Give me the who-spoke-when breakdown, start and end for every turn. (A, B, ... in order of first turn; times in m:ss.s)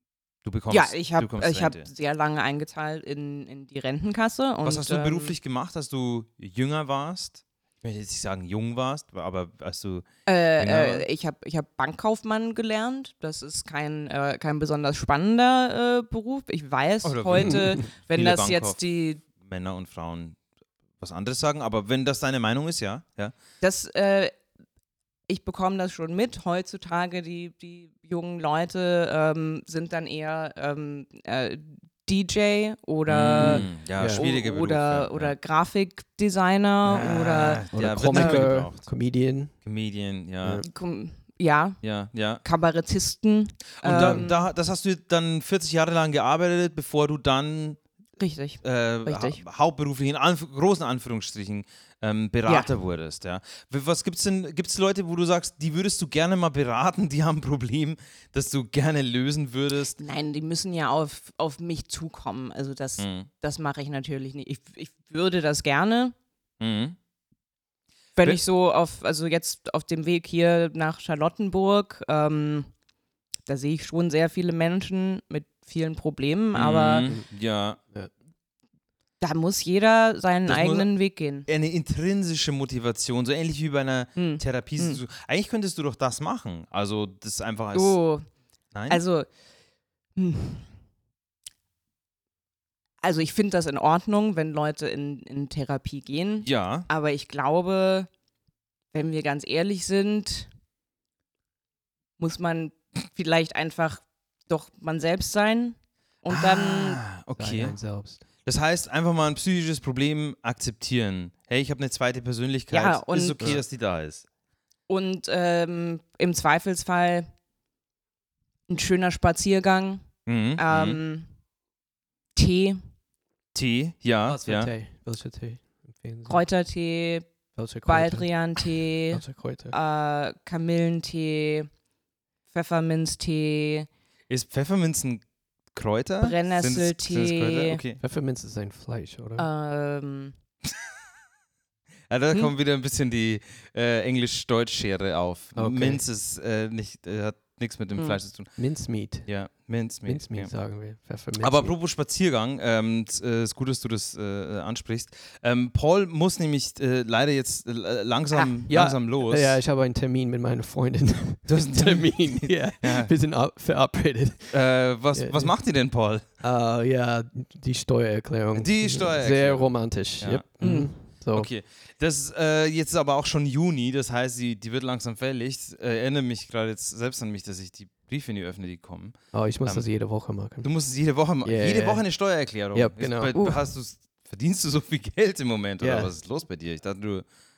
0:00.4-0:01.9 A
0:00.7-0:05.4 B
0:04.6-0:11.0 A
0:10.2-0:19.2 B
0:17.0-0:20.4 A
0:21.0-0:23.3 A
0:23.6-0:24.3 B
0:25.3-0:38.5 B
0:33.1-0:35.4 A
0:33.4-0:34.2 C
0:36.9-0:38.9 A
0:37.7-0:39.5 C
0:39.6-0:40.6 A
0:40.6-0:41.8 B
0:41.8-0:42.4 A
0:42.4-0:44.4 B
0:43.8-0:47.8 A
0:43.9-0:44.2 C
0:48.2-0:49.4 B
0:48.6-1:00.0 A
0:52.4-0:52.7 B
1:00.0-1:06.1 B
1:03.0-1:03.3 A
1:06.6-1:07.0 A
1:08.2-1:12.7 B
1:13.5-1:17.1 B
1:16.5-1:17.8 A
1:19.2-1:21.5 B
1:20.5-1:20.9 A
1:21.4-1:28.0 A
1:24.2-1:25.0 B
1:27.7-1:28.2 B
1:28.7-1:29.0 A
1:28.9-1:29.3 B
1:30.2-1:30.7 B
1:33.0-1:38.1 B
1:36.4-1:36.9 A
1:38.9-1:40.5 B
1:42.2-1:47.0 B
1:46.3-1:47.8 A
1:47.4-1:48.2 C
1:48.4-1:54.2 A
1:52.7-1:53.6 B
1:54.9-1:57.3 B
1:58.7-2:01.3 B
2:00.2-2:01.0 A
2:02.4-2:02.8 B
2:03.5-2:04.7 A
2:04.2-2:06.4 C
2:06.2-2:07.3 B
2:07.6-2:08.3 C
2:07.9-2:11.7 B
2:09.1-2:09.8 C
2:12.5-2:13.9 B
2:14.3-2:18.0 A
2:16.2-2:17.8 B
2:18.0-2:19.4 C
2:19.4-2:20.4 B
2:22.1-2:28.5 A
2:25.6-2:26.0 C
2:28.6-2:29.3 C
2:29.2-2:30.5 A
2:30.0-2:31.7 C
2:31.4-2:39.6 A
2:38.7-2:44.6 C
2:41.4-2:43.1 A
2:44.5-2:46.2 A
2:45.1-2:45.5 C
2:46.4-2:51.5 C
2:48.5-2:50.5 A
2:50.6-2:50.9 B
2:51.3-2:59.8 A
2:59.3-3:00.7 C
3:00.6-3:07.2 A
3:01.4-3:02.0 C
3:02.7-3:03.4 C
3:03.4-3:03.6 B
3:05.8-3:06.1 C